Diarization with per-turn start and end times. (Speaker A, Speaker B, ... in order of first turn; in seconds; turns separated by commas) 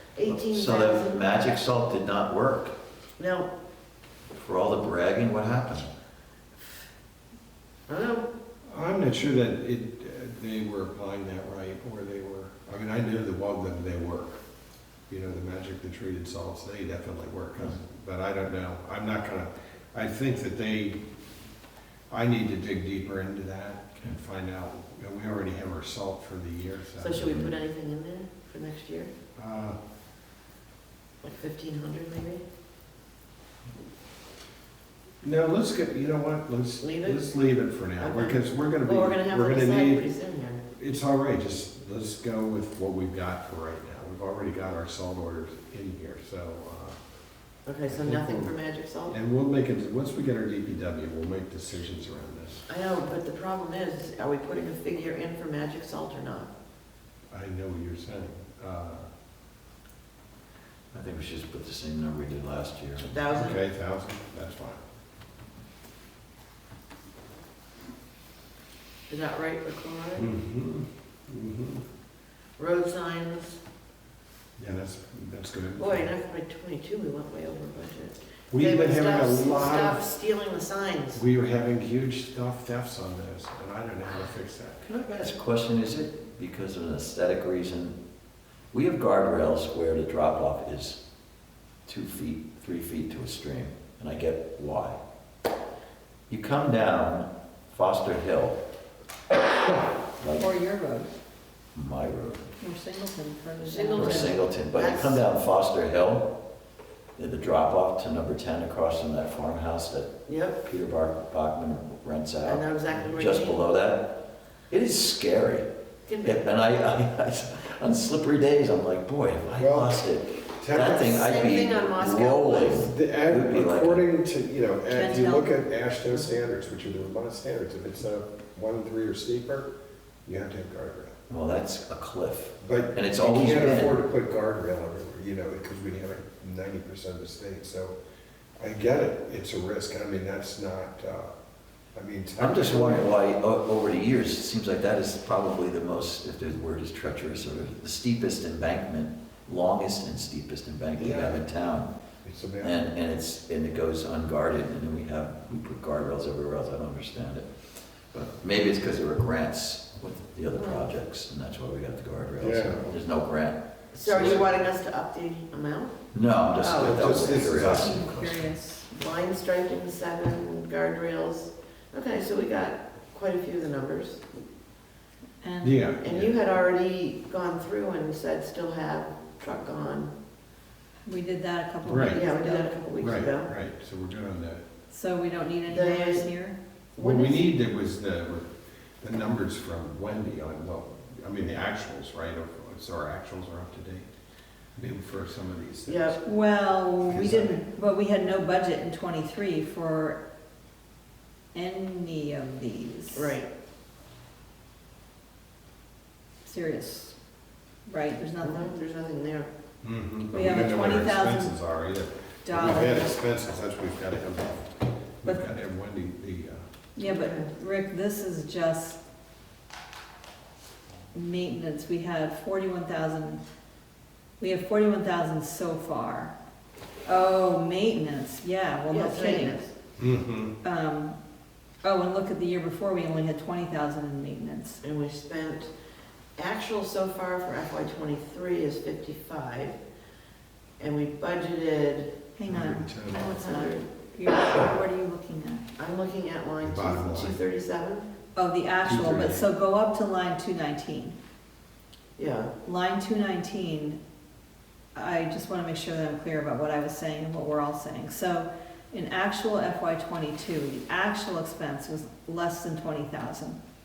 Speaker A: 0.2-1.2, Speaker B: 0.2-2.7, Speaker A: 3.2-3.5, Speaker B: 4.3-5.9, Speaker A: 7.9-8.3, Speaker C: 8.7-14.4, Speaker C: 15.1-21.0, Speaker C: 22.1-27.4, Speaker A: 27.0-29.1, Speaker C: 29.4-29.8, Speaker A: 31.2-32.4, Speaker C: 35.2-40.0, Speaker A: 36.8-37.2, Speaker A: 38.0-40.6, Speaker C: 40.7-47.0, Speaker A: 47.7-49.2, Speaker C: 47.9-48.5, Speaker C: 49.1-52.6, Speaker A: 52.7-56.5, Speaker C: 57.3-59.1, Speaker B: 60.9-63.1, Speaker A: 63.0-63.6, Speaker C: 63.3-64.8, Speaker A: 69.1-70.3, Speaker C: 70.2-71.8, Speaker A: 72.6-73.6, Speaker C: 74.6-76.1, Speaker A: 75.8-81.2, Speaker C: 78.5-80.0, Speaker C: 81.2-84.8, Speaker B: 84.8-88.0, Speaker B: 88.7-91.0, Speaker B: 91.9-95.0, Speaker B: 96.3-98.6, Speaker B: 100.2-100.5, Speaker D: 100.3-101.1, Speaker B: 101.8-102.5, Speaker D: 102.6-104.3, Speaker A: 103.6-105.2, Speaker B: 103.9-106.3, Speaker B: 107.2-115.7, Speaker A: 110.3-110.6, Speaker A: 112.4-113.6, Speaker A: 116.1-116.5, Speaker B: 116.2-124.0, Speaker C: 119.5-120.0, Speaker C: 120.6-121.7, Speaker A: 120.8-122.9, Speaker C: 122.8-129.7, Speaker D: 124.9-125.6, Speaker C: 130.3-131.2, Speaker B: 131.3-134.0, Speaker C: 132.6-138.0, Speaker C: 138.6-141.3, Speaker C: 141.9-143.1, Speaker B: 142.4-151.9, Speaker C: 151.0-151.4, Speaker C: 152.2-152.9, Speaker B: 152.6-157.5, Speaker B: 158.1-164.5, Speaker A: 160.6-160.9, Speaker C: 162.4-162.9, Speaker A: 164.0-165.9, Speaker C: 164.1-164.5, Speaker B: 166.1-168.4, Speaker A: 166.6-167.2, Speaker C: 166.7-168.2, Speaker D: 167.6-169.1, Speaker A: 169.0-174.2, Speaker D: 175.4-175.8, Speaker C: 175.6-176.3, Speaker A: 176.0-180.1, Speaker D: 181.1-182.7, Speaker C: 181.8-182.2, Speaker A: 182.1-183.5, Speaker C: 183.0-184.6, Speaker D: 184.9-186.6, Speaker A: 185.7-186.3, Speaker A: 187.0-187.5, Speaker C: 187.0-194.1, Speaker C: 194.8-196.2, Speaker A: 195.9-196.2, Speaker D: 196.2-200.2, Speaker C: 197.1-197.6, Speaker D: 201.6-203.4, Speaker A: 203.1-203.5, Speaker D: 206.4-207.2, Speaker D: 207.9-208.8, Speaker A: 208.4-209.5, Speaker C: 209.8-216.6, Speaker D: 210.3-211.5, Speaker D: 212.4-213.2, Speaker D: 217.0-219.0, Speaker A: 217.0-217.5, Speaker D: 221.1-223.4, Speaker D: 224.4-226.3, Speaker D: 227.1-229.6, Speaker A: 228.9-229.7, Speaker C: 230.0-230.5, Speaker D: 230.6-231.2, Speaker D: 231.8-234.8, Speaker A: 234.8-235.7, Speaker A: 236.4-239.8, Speaker A: 240.8-242.2, Speaker D: 242.4-245.7, Speaker C: 242.5-243.3, Speaker A: 243.1-243.9, Speaker A: 245.8-248.1, Speaker C: 246.6-247.4, Speaker D: 248.4-251.2, Speaker C: 248.8-249.4, Speaker A: 252.2-252.5, Speaker D: 252.7-254.0, Speaker D: 254.9-263.6